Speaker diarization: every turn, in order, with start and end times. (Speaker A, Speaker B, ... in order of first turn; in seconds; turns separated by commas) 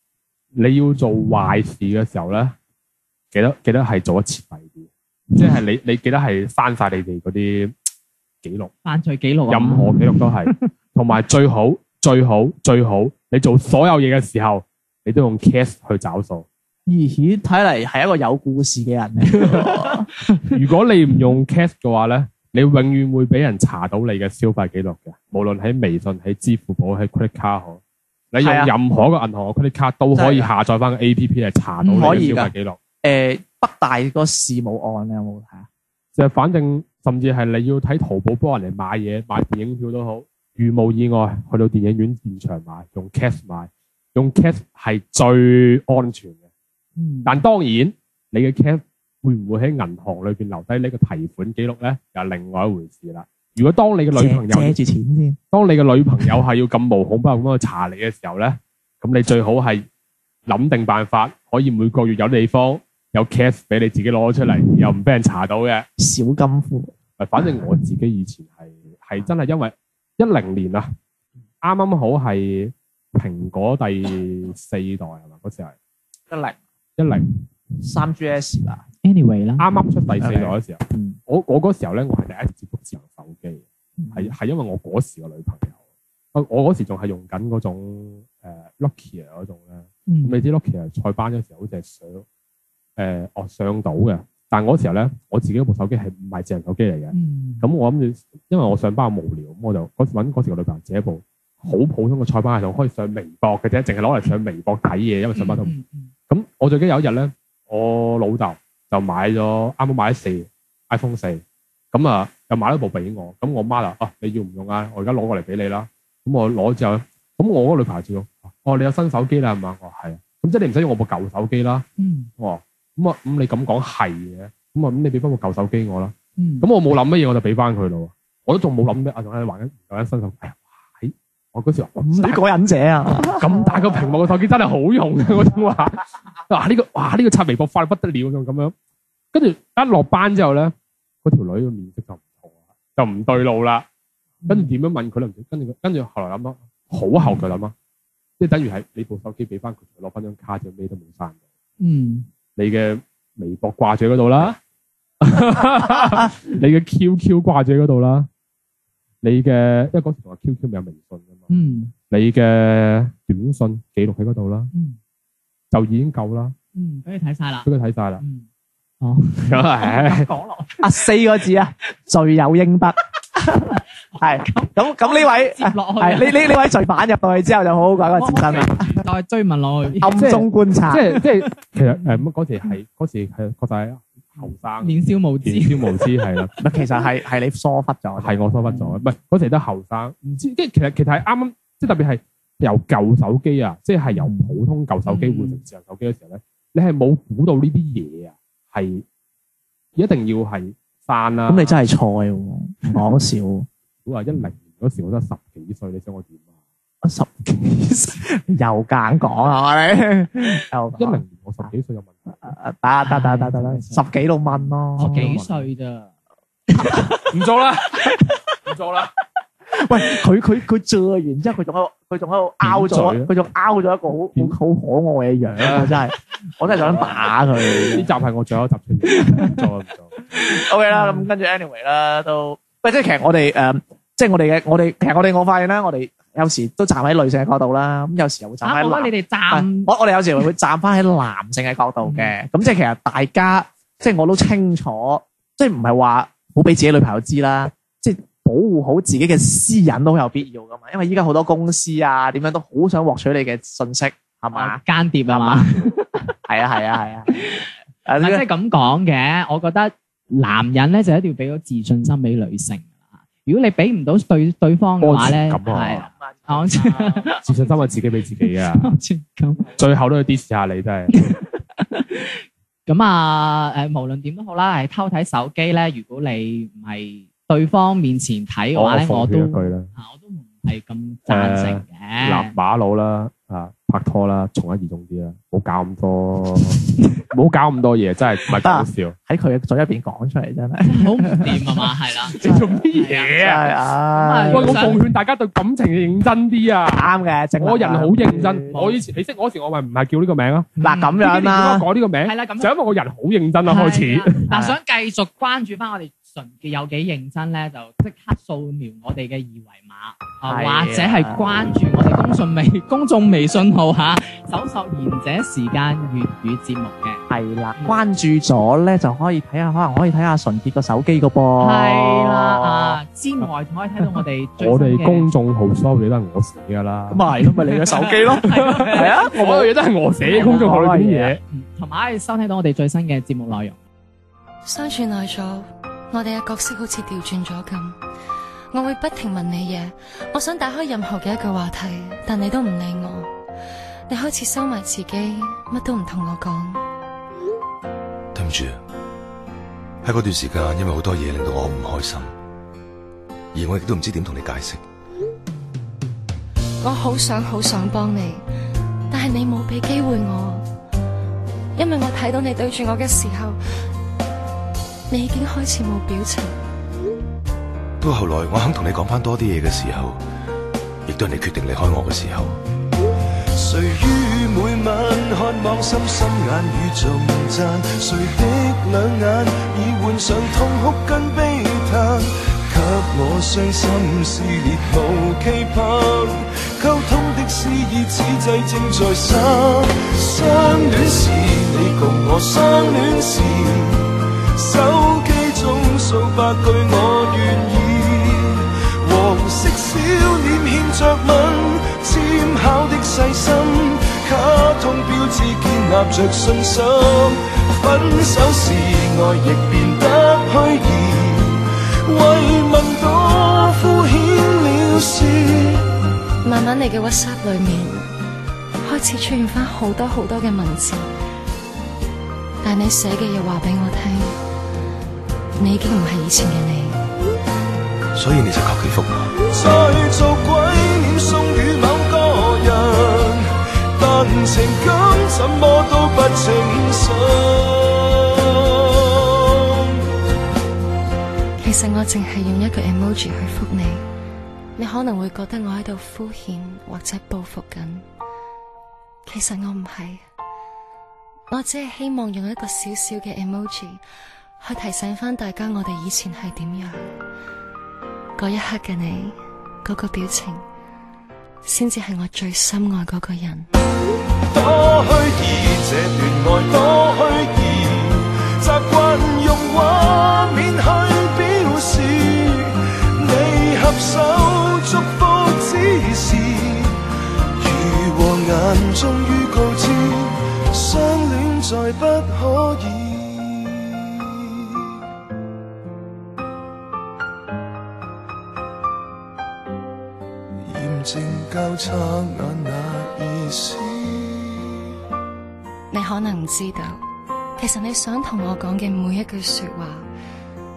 Speaker A: 0.5-2.5, Speaker A: 3.3-7.7, Speaker A: 8.4-8.7, Speaker B: 8.8-10.7, Speaker A: 9.5-16.4, Speaker C: 16.9-20.1, Speaker A: 20.5-27.8, Speaker A: 28.3-32.8, Speaker C: 28.4-28.7, Speaker C: 30.1-30.5, Speaker B: 31.8-32.3, Speaker C: 31.9-35.7, Speaker A: 36.1-46.4, Speaker B: 47.0-47.4, Speaker A: 47.2-54.8, Speaker C: 54.1-55.4, Speaker A: 55.5-59.9, Speaker A: 60.5-65.8, Speaker C: 66.0-66.9, Speaker A: 67.2-70.9, Speaker A: 71.6-75.7, Speaker C: 76.3-76.6, Speaker A: 77.0-77.3, Speaker C: 77.8-78.8, Speaker B: 79.0-80.0, Speaker A: 79.6-85.7, Speaker C: 80.2-81.1, Speaker C: 84.0-84.3, Speaker A: 86.3-92.2, Speaker B: 90.1-90.4, Speaker A: 93.0-105.7, Speaker B: 97.1-97.7, Speaker B: 105.3-106.1, Speaker A: 106.3-111.4, Speaker A: 111.9-121.8, Speaker B: 122.0-122.3, Speaker A: 122.4-132.4, Speaker B: 126.4-126.7, Speaker C: 132.0-133.7, Speaker A: 133.2-138.7, Speaker A: 139.3-143.8, Speaker B: 144.4-144.8, Speaker A: 144.5-147.7, Speaker A: 148.4-151.4, Speaker B: 151.8-152.3, Speaker A: 152.6-154.6, Speaker A: 155.2-158.3, Speaker A: 159.2-161.5, Speaker B: 161.5-161.9, Speaker A: 162.1-164.7, Speaker B: 164.7-165.0, Speaker A: 165.7-166.5, Speaker B: 166.7-168.4, Speaker A: 167.6-168.2, Speaker B: 169.0-170.8, Speaker A: 169.4-170.3, Speaker C: 170.8-178.9, Speaker B: 174.1-176.5, Speaker B: 178.2-180.3, Speaker C: 180.0-181.1, Speaker A: 180.2-186.5, Speaker B: 180.9-182.2, Speaker B: 184.8-186.5, Speaker C: 186.6-188.9, Speaker A: 188.2-199.0, Speaker B: 195.1-195.6, Speaker A: 199.9-201.8, Speaker C: 201.5-203.7, Speaker A: 204.0-206.4, Speaker C: 207.0-211.7, Speaker A: 211.0-212.5, Speaker C: 212.4-215.4, Speaker B: 213.0-214.0, Speaker A: 214.9-215.7, Speaker B: 215.0-216.1, Speaker B: 216.7-217.1, Speaker C: 216.8-217.2, Speaker A: 217.3-218.1, Speaker A: 218.7-219.1, Speaker C: 219.7-228.1, Speaker A: 222.6-223.3, Speaker A: 225.6-226.1, Speaker A: 226.7-230.2, Speaker C: 230.3-255.7, Speaker B: 230.9-231.2, Speaker B: 238.6-239.9, Speaker B: 242.0-242.3, Speaker B: 254.5-256.3, Speaker C: 256.5-257.3, Speaker B: 257.3-267.4, Speaker C: 258.1-258.4, Speaker A: 265.0-266.1, Speaker C: 266.1-267.8, Speaker A: 267.4-268.9, Speaker B: 268.3-269.8, Speaker A: 269.8-271.4, Speaker B: 271.1-282.5, Speaker A: 278.7-279.9, Speaker A: 281.3-289.1, Speaker C: 288.6-291.8, Speaker B: 290.8-293.3, Speaker A: 292.3-293.7, Speaker C: 292.4-292.8, Speaker C: 293.3-295.0, Speaker B: 294.1-295.0, Speaker A: 294.5-304.4, Speaker C: 296.9-298.8, Speaker B: 300.8-301.2, Speaker C: 300.8-301.9, Speaker B: 302.2-302.7, Speaker B: 303.6-317.2, Speaker C: 304.5-304.8, Speaker C: 310.4-311.4, Speaker C: 317.3-323.0, Speaker B: 321.6-325.3, Speaker A: 324.6-331.4, Speaker C: 327.1-329.7, Speaker B: 327.4-329.3, Speaker B: 330.2-330.8, Speaker C: 330.2-331.4, Speaker B: 331.5-333.8, Speaker D: 334.6-338.0, Speaker D: 338.7-343.3, Speaker D: 344.1-346.8, Speaker E: 348.3-348.8, Speaker E: 350.0-352.3, Speaker E: 353.5-354.8, Speaker D: 356.8-358.4, Speaker D: 359.1-360.6, Speaker D: 361.8-363.6, Speaker D: 365.1-366.6, Speaker E: 368.0-370.2, Speaker E: 371.1-372.6, Speaker F: 373.5-415.9, Speaker D: 416.4-418.1, Speaker D: 418.8-421.1, Speaker D: 422.6-424.4, Speaker D: 425.6-427.0, Speaker E: 428.1-429.3, Speaker F: 429.5-439.6, Speaker D: 441.6-444.0, Speaker D: 444.8-448.0, Speaker D: 449.2-450.2, Speaker D: 451.5-454.0, Speaker D: 454.6-457.1, Speaker D: 458.4-460.6, Speaker D: 461.6-463.7, Speaker F: 464.5-477.0, Speaker F: 477.6-484.1, Speaker F: 490.6-494.8, Speaker D: 495.9-497.0, Speaker D: 497.6-500.1